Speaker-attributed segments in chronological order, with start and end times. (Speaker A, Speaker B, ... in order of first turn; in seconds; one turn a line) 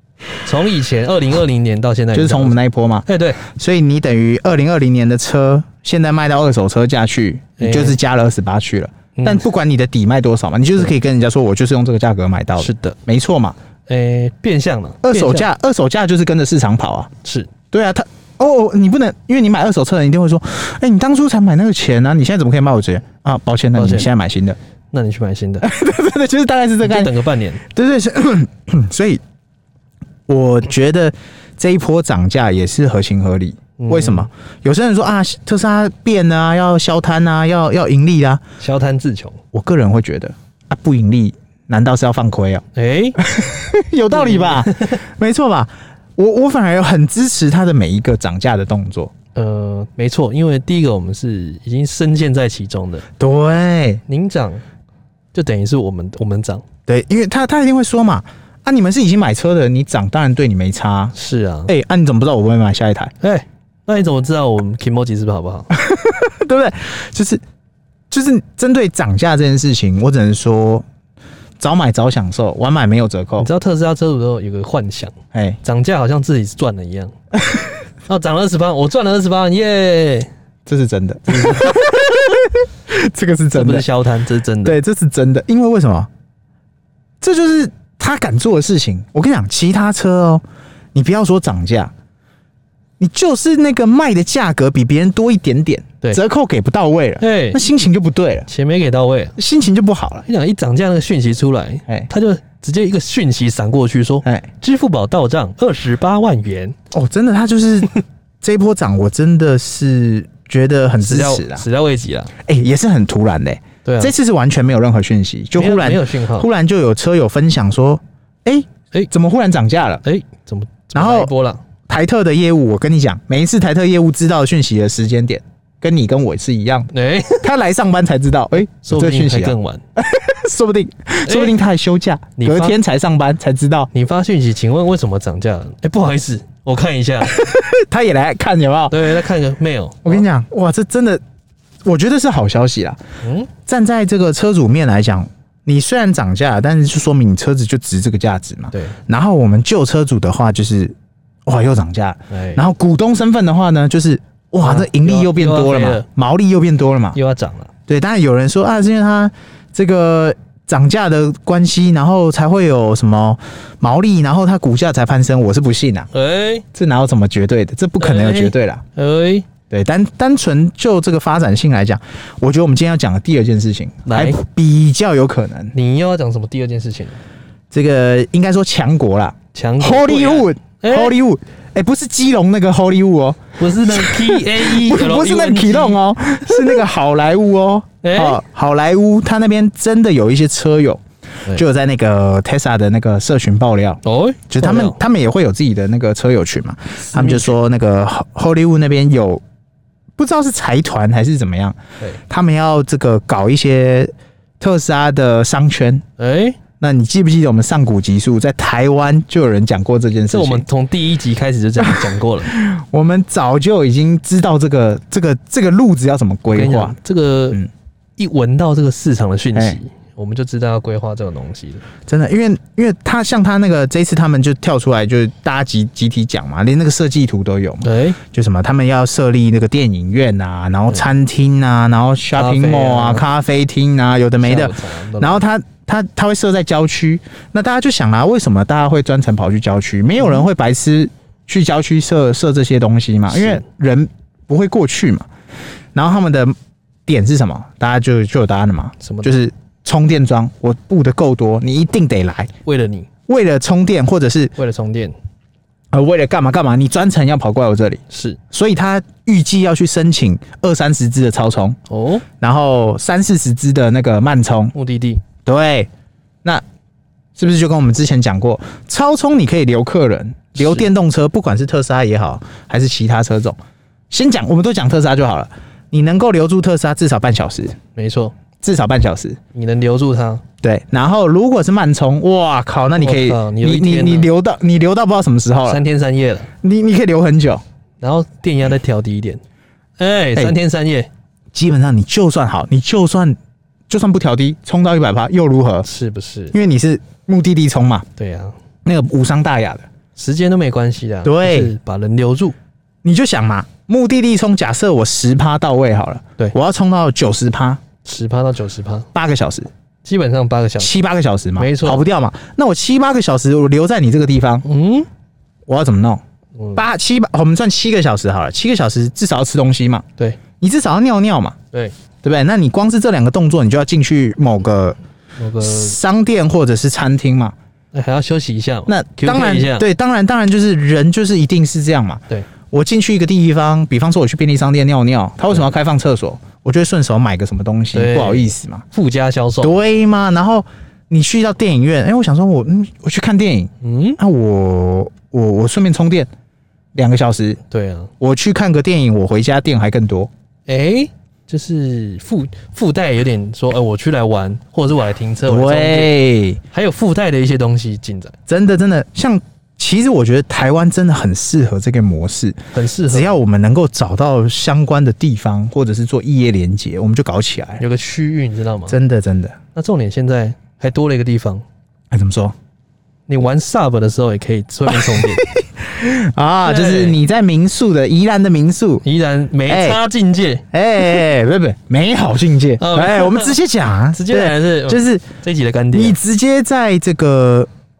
Speaker A: 0.4-3.4
Speaker B: 2.1-13.6
Speaker A: 7.6-8.0
Speaker A: 9.1-9.5
Speaker A: 12.6-13.0
Speaker A: 13.9-15.5
Speaker B: 15.0-17.1
Speaker A: 17.2-17.5
Speaker B: 17.7-24.6
Speaker A: 23.8-24.1
Speaker A: 24.9-25.7
Speaker B: 25.6-27.1
Speaker A: 26.8-27.6
Speaker B: 27.6-29.2
Speaker B: 30.3-38.4
Speaker A: 33.8-34.3
Speaker A: 38.6-39.4
Speaker B: 39.5-42.6
Speaker A: 42.7-43.2
Speaker B: 43.2-49.1
Speaker A: 44.1-45.0
Speaker A: 49.3-53.0
Speaker B: 53.2-54.0
Speaker A: 54.1-54.6
Speaker A: 55.3-56.6
Speaker B: 56.9-61.1
Speaker A: 61.1-61.7
Speaker B: 61.7-63.1
Speaker A: 63.2-65.7
Speaker B: 65.7-67.4
Speaker B: 68.1-70.8
Speaker B: 71.6-73.5
Speaker A: 73.4-77.1
Speaker B: 75.3-75.6
Speaker B: 77.4-77.7
Speaker A: 78.1-80.3
Speaker B: 80.7-83.9
Speaker A: 81.3-82.3
Speaker A: 83.5-84.8
Speaker B: 84.6-86.1
Speaker B: 87.2-90.4
Speaker B: 90.9-91.9
Speaker B: 93.0-98.5
Speaker A: 97.2-97.6
Speaker A: 98.5-99.3
Speaker B: 99.4-100.2
Speaker A: 100.2-106.8
Speaker B: 106.9-111.7
Speaker A: 111.0-112.3
Speaker B: 112.4-120.0
Speaker A: 113.8-114.1
Speaker A: 115.5-116.5
Speaker A: 120.0-121.6
Speaker B: 120.9-121.3
Speaker B: 121.9-133.9
Speaker A: 126.9-127.5
Speaker A: 128.6-129.8
Speaker A: 131.2-131.5
Speaker A: 132.4-132.8
Speaker A: 133.9-137.3
Speaker B: 137.2-139.2
Speaker A: 138.9-140.2
Speaker B: 140.0-141.2
Speaker B: 141.8-143.0
Speaker A: 143.2-143.5
Speaker B: 143.7-150.9
Speaker B: 151.4-157.2
Speaker A: 152.3-152.6
Speaker A: 154.6-156.1
Speaker A: 157.1-157.7
Speaker B: 157.9-166.1
Speaker A: 166.1-166.6
Speaker B: 166.7-168.8
Speaker A: 168.0-169.5
Speaker B: 169.7-175.7
Speaker A: 174.0-174.4
Speaker A: 175.7-177.2
Speaker B: 177.7-191.0
Speaker A: 179.5-181.2
Speaker A: 183.6-186.8
Speaker A: 188.0-188.4
Speaker B: 191.5-199.4
Speaker A: 194.0-195.0
Speaker A: 197.0-197.5
Speaker B: 200.2-201.8
Speaker B: 202.3-206.0
Speaker A: 206.2-206.6
Speaker B: 206.8-210.6
Speaker A: 210.3-212.5
Speaker B: 211.8-216.9
Speaker A: 216.5-217.6
Speaker A: 218.2-221.8
Speaker B: 222.1-245.3
Speaker A: 227.8-228.2
Speaker A: 232.3-233.2
Speaker A: 234.4-235.4
Speaker A: 243.3-243.6
Speaker B: 245.9-246.5
Speaker B: 247.1-252.5
Speaker A: 249.0-249.3
Speaker A: 252.6-253.1
Speaker B: 253.3-254.5
Speaker A: 254.6-255.1
Speaker B: 255.9-261.8
Speaker A: 258.1-258.4
Speaker A: 261.9-262.2
Speaker B: 262.4-264.7
Speaker A: 264.7-265.2
Speaker B: 265.4-265.9
Speaker B: 267.4-273.6
Speaker A: 270.6-270.9
Speaker B: 274.1-277.8
Speaker A: 277.9-278.3
Speaker B: 278.6-279.4
Speaker A: 279.5-280.4
Speaker B: 280.6-285.8
Speaker A: 283.0-284.3
Speaker A: 285.6-286.5
Speaker B: 286.6-287.6
Speaker A: 288.0-289.4
Speaker A: 290.0-291.1
Speaker B: 291.5-293.4
Speaker B: 293.9-295.9
Speaker A: 295.8-296.5
Speaker B: 296.5-298.1
Speaker A: 298.2-298.5
Speaker B: 298.8-299.9
Speaker A: 300.1-302.5
Speaker B: 301.2-301.7
Speaker B: 303.0-307.8
Speaker A: 308.0-309.1
Speaker B: 309.1-309.7
Speaker A: 310.0-310.9
Speaker B: 310.8-314.6
Speaker A: 311.6-312.0
Speaker A: 314.6-315.1
Speaker B: 315.7-316.2
Speaker A: 316.6-316.8
Speaker B: 316.7-320.1
Speaker B: 320.6-321.6
Speaker B: 322.2-325.0
Speaker A: 325.4-325.9
Speaker B: 325.6-327.5
Speaker A: 327.9-329.9
Speaker B: 328.9-338.8
Speaker A: 337.9-339.8
Speaker B: 339.6-346.3
Speaker A: 343.8-344.2
Speaker B: 346.9-347.6
Speaker A: 347.7-348.1
Speaker B: 348.2-350.3
Speaker A: 350.7-356.2
Speaker B: 355.4-356.6
Speaker A: 356.7-358.3
Speaker B: 358.5-367.8
Speaker A: 362.7-363.4
Speaker A: 367.8-369.0
Speaker B: 368.9-369.6
Speaker A: 369.7-371.6
Speaker B: 372.1-372.5
Speaker A: 373.3-375.4
Speaker B: 374.9-379.0
Speaker A: 376.6-377.2
Speaker A: 379.0-380.6
Speaker B: 379.7-380.0
Speaker B: 380.7-385.3
Speaker A: 382.8-383.6
Speaker A: 384.1-386.2
Speaker B: 385.9-387.7